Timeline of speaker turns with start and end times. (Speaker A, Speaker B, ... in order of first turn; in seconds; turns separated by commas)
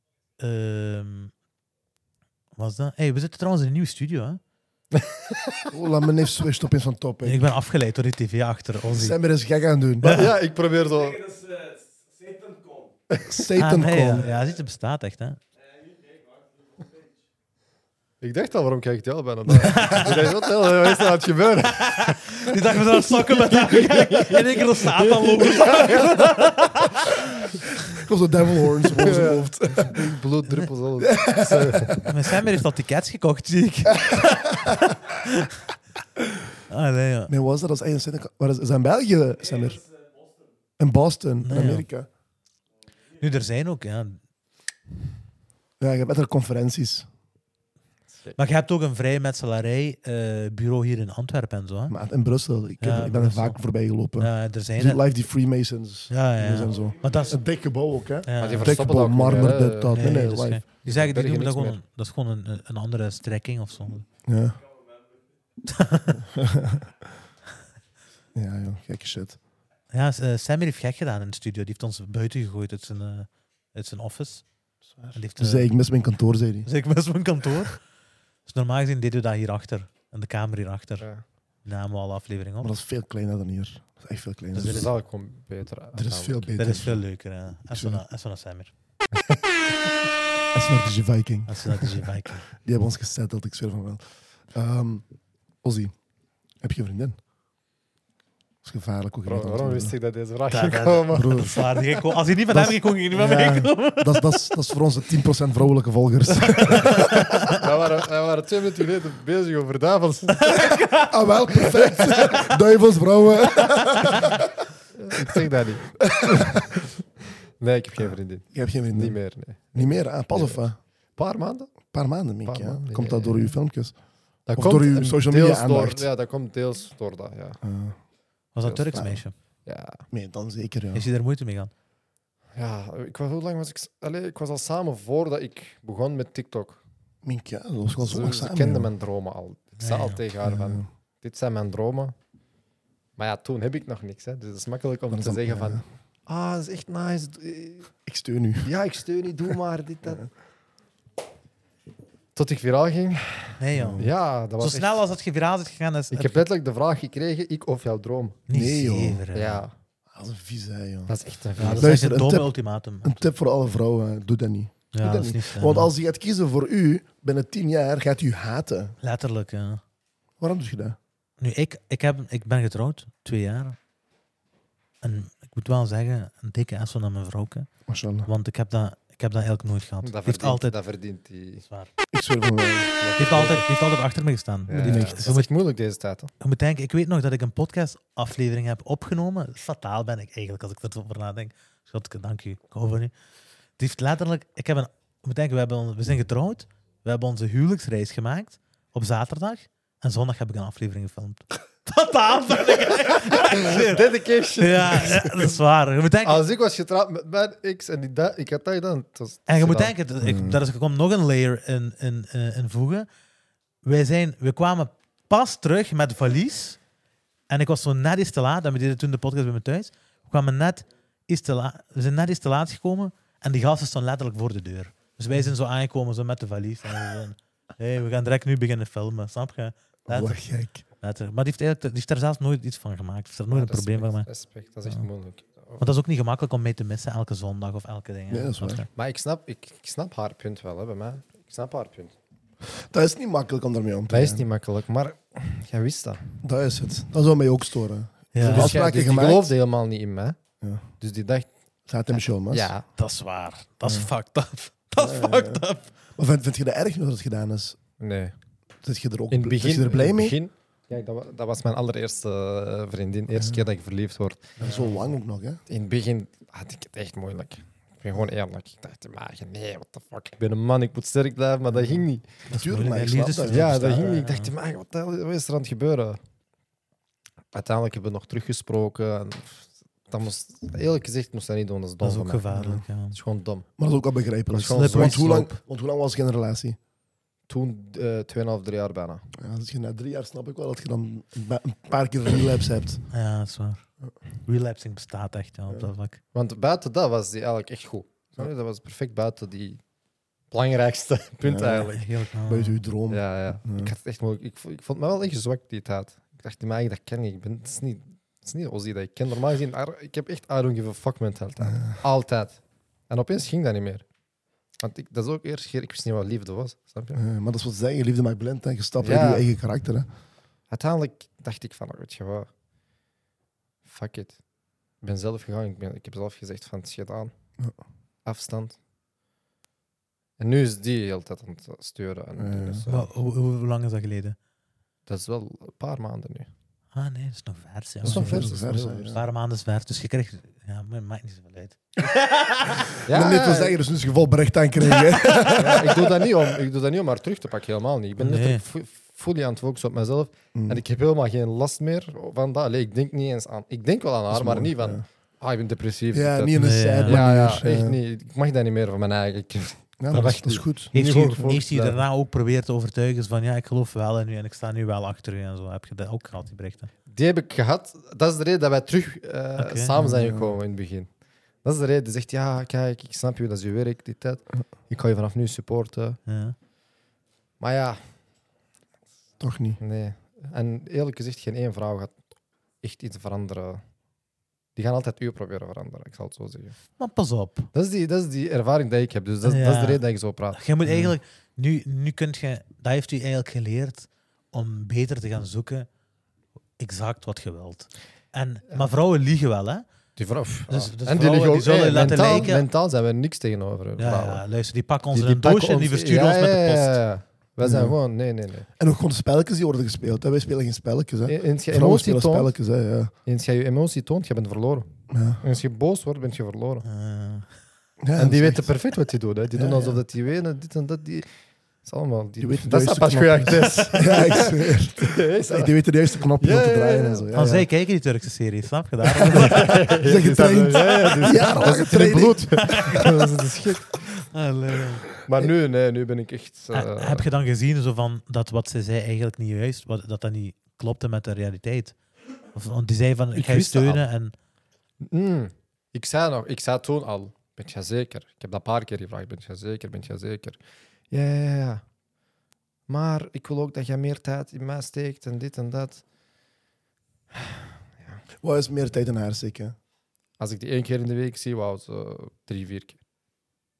Speaker A: 0.4-1.3, Speaker A: 2.6-4.4, Speaker B: 4.9-5.7, Speaker C: 5.7-7.5, Speaker A: 7.2-9.2, Speaker C: 8.9-10.3, Speaker B: 10.0-11.6, Speaker A: 10.0-10.3, Speaker C: 13.2-14.3, Speaker A: 13.6-15.4, Speaker B: 18.2-22.3, Speaker C: 19.5-20.0, Speaker A: 19.6-20.3, Speaker A: 21.8-27.5, Speaker B: 23.4-26.4, Speaker C: 27.9-30.1, Speaker B: 28.9-32.0, Speaker C: 31.0-32.2, Speaker A: 32.0-35.6, Speaker C: 34.0-34.9, Speaker A: 36.7-37.3, Speaker C: 37.3-39.8, Speaker C: 40.8-42.1, Speaker A: 41.5-41.9, Speaker A: 43.2-44.2, Speaker C: 45.8-47.1, Speaker A: 48.4-52.0, Speaker C: 51.9-60.6, Speaker A: 52.8-53.6, Speaker A: 54.2-55.0, Speaker A: 56.1-57.4, Speaker A: 58.3-58.8, Speaker B: 58.4-60.0, Speaker A: 59.9-64.1, Speaker B: 60.8-61.8, Speaker C: 64.3-64.6, Speaker A: 65.7-66.3, Speaker C: 66.2-66.9, Speaker C: 68.3-69.4, Speaker A: 69.9-74.5, Speaker C: 75.0-76.7, Speaker A: 75.1-75.7, Speaker A: 76.7-77.8, Speaker A: 78.5-81.1, Speaker A: 81.7-82.7, Speaker C: 82.6-84.9, Speaker A: 84.5-84.9, Speaker B: 84.6-86.6, Speaker C: 85.9-87.0, Speaker A: 86.6-88.7, Speaker C: 87.7-88.0, Speaker C: 90.5-92.0, Speaker A: 91.5-92.5, Speaker C: 92.6-95.0, Speaker C: 95.6-95.9, Speaker C: 96.6-97.2, Speaker C: 98.6-100.0, Speaker B: 99.2-101.7, Speaker A: 100.5-104.5, Speaker C: 101.1-101.7, Speaker C: 102.5-107.7, Speaker B: 106.7-110.5, Speaker A: 106.8-107.5, Speaker A: 110.4-112.5, Speaker C: 111.1-114.5, Speaker A: 113.7-114.4, Speaker B: 114.9-116.8, Speaker C: 116.0-116.7, Speaker B: 117.6-121.8, Speaker C: 118.5-119.2, Speaker C: 119.7-120.8, Speaker C: 121.9-124.0, Speaker B: 122.5-123.5, Speaker B: 124.5-127.6, Speaker C: 124.6-126.1, Speaker C: 127.6-128.0, Speaker A: 128.6-129.3, Speaker B: 128.6-130.1, Speaker C: 130.1-131.0, Speaker A: 130.9-131.7, Speaker B: 132.6-136.8, Speaker C: 137.2-138.9, Speaker B: 138.0-142.1, Speaker A: 139.8-140.2, Speaker C: 140.4-140.9, Speaker B: 143.2-147.9, Speaker C: 145.1-145.8, Speaker C: 148.1-148.7, Speaker B: 148.7-150.3, Speaker B: 152.3-155.0, Speaker A: 153.6-154.1, Speaker C: 153.7-154.1, Speaker A: 154.6-156.5, Speaker B: 156.1-158.4, Speaker A: 158.5-159.7, Speaker C: 158.5-159.2, Speaker B: 159.3-159.7, Speaker C: 160.1-161.1, Speaker B: 161.1-162.0, Speaker A: 161.6-163.1, Speaker C: 161.7-162.5, Speaker C: 163.0-169.0, Speaker A: 164.9-165.9, Speaker A: 169.0-169.8, Speaker C: 170.4-171.0, Speaker A: 171.4-173.8, Speaker A: 175.0-177.7, Speaker C: 177.9-178.3, Speaker A: 178.3-180.8, Speaker B: 180.0-181.6, Speaker A: 181.7-181.9, Speaker C: 182.1-182.9, Speaker B: 183.0-183.7, Speaker A: 183.2-185.5, Speaker B: 184.7-186.3, Speaker C: 184.8-185.3, Speaker A: 186.4-193.1, Speaker A: 193.8-206.5, Speaker B: 203.4-205.6, Speaker B: 206.2-209.9, Speaker A: 209.5-213.1, Speaker C: 210.2-210.6, Speaker A: 213.8-216.8, Speaker A: 217.5-230.4, Speaker C: 230.1-230.8, Speaker A: 231.0-234.3, Speaker B: 233.5-235.8, Speaker A: 235.8-238.9, Speaker C: 238.3-238.8, Speaker B: 238.9-242.2, Speaker C: 242.7-244.4, Speaker B: 244.1-246.4, Speaker C: 246.4-249.5, Speaker A: 248.3-248.8, Speaker B: 248.4-250.4, Speaker B: 251.0-251.5, Speaker C: 251.9-252.7, Speaker B: 252.2-252.9, Speaker A: 253.0-255.9, Speaker C: 255.0-255.6, Speaker C: 256.2-257.8, Speaker B: 258.0-258.4, Speaker C: 258.8-260.4, Speaker B: 259.3-265.0, Speaker C: 263.4-263.6, Speaker C: 264.6-265.6, Speaker B: 265.7-272.2, Speaker A: 272.5-274.5, Speaker C: 272.5-274.1, Speaker B: 273.5-276.2, Speaker B: 277.5-282.5, Speaker A: 282.0-283.2, Speaker C: 282.5-282.8, Speaker B: 283.1-283.7, Speaker C: 283.8-286.8, Speaker B: 284.5-285.5, Speaker A: 284.6-285.6, Speaker B: 287.5-289.3, Speaker C: 289.4-293.0, Speaker A: 293.1-293.8, Speaker A: 294.5-296.2, Speaker B: 296.3-299.8, Speaker B: 300.5-302.1, Speaker C: 301.4-301.9, Speaker A: 301.7-302.8, Speaker C: 302.5-303.9, Speaker B: 303.1-314.1, Speaker C: 311.7-312.0, Speaker B: 314.8-317.2, Speaker C: 317.1-320.1, Speaker B: 319.0-319.5, Speaker B: 320.7-322.5, Speaker B: 323.9-324.4, Speaker B: 325.0-327.3, Speaker B: 328.2-328.8, Speaker B: 330.4-333.1, Speaker C: 332.4-332.9, Speaker A: 332.9-334.4, Speaker B: 335.1-336.5, Speaker A: 336.9-338.5, Speaker B: 338.0-339.1, Speaker C: 338.0-339.2, Speaker A: 339.1-343.0, Speaker B: 343.0-343.8, Speaker C: 343.1-346.5, Speaker B: 345.5-362.0, Speaker A: 348.2-348.6, Speaker C: 350.6-350.8, Speaker C: 354.3-355.0, Speaker C: 356.1-358.0, Speaker A: 356.6-357.2, Speaker C: 360.0-361.6, Speaker A: 360.9-366.9, Speaker B: 367.1-371.1, Speaker A: 369.6-369.9, Speaker C: 370.0-370.6, Speaker B: 371.6-376.2, Speaker A: 376.3-376.6, Speaker B: 377.6-378.0, Speaker C: 379.4-379.8, Speaker B: 379.8-382.2, Speaker B: 382.8-383.8, Speaker B: 384.8-386.8, Speaker A: 387.0-387.7, Speaker B: 387.7-391.1, Speaker A: 389.4-390.0, Speaker A: 390.5-395.9, Speaker A: 396.8-399.9, Speaker B: 400.2-404.4, Speaker A: 400.7-402.6, Speaker A: 404.0-407.0, Speaker B: 405.1-408.7, Speaker C: 407.6-408.0, Speaker C: 408.8-413.1, Speaker B: 411.3-412.5, Speaker B: 413.3-414.9, Speaker C: 415.1-415.4, Speaker B: 415.4-416.9, Speaker A: 416.8-417.5, Speaker C: 418.0-418.7, Speaker B: 418.2-421.3, Speaker C: 419.5-420.0, Speaker B: 421.9-425.8, Speaker C: 422.4-427.7, Speaker B: 426.4-427.6, Speaker A: 427.3-429.9, Speaker B: 429.2-434.0, Speaker C: 429.2-432.9, Speaker A: 432.6-433.3, Speaker A: 433.9-435.1, Speaker B: 435.2-437.2, Speaker A: 436.7-442.0, Speaker A: 442.5-444.4, Speaker B: 443.4-444.1, Speaker B: 445.0-450.6, Speaker B: 451.1-451.8, Speaker B: 452.9-456.0, Speaker B: 457.3-458.2, Speaker C: 458.4-459.8, Speaker B: 460.4-463.0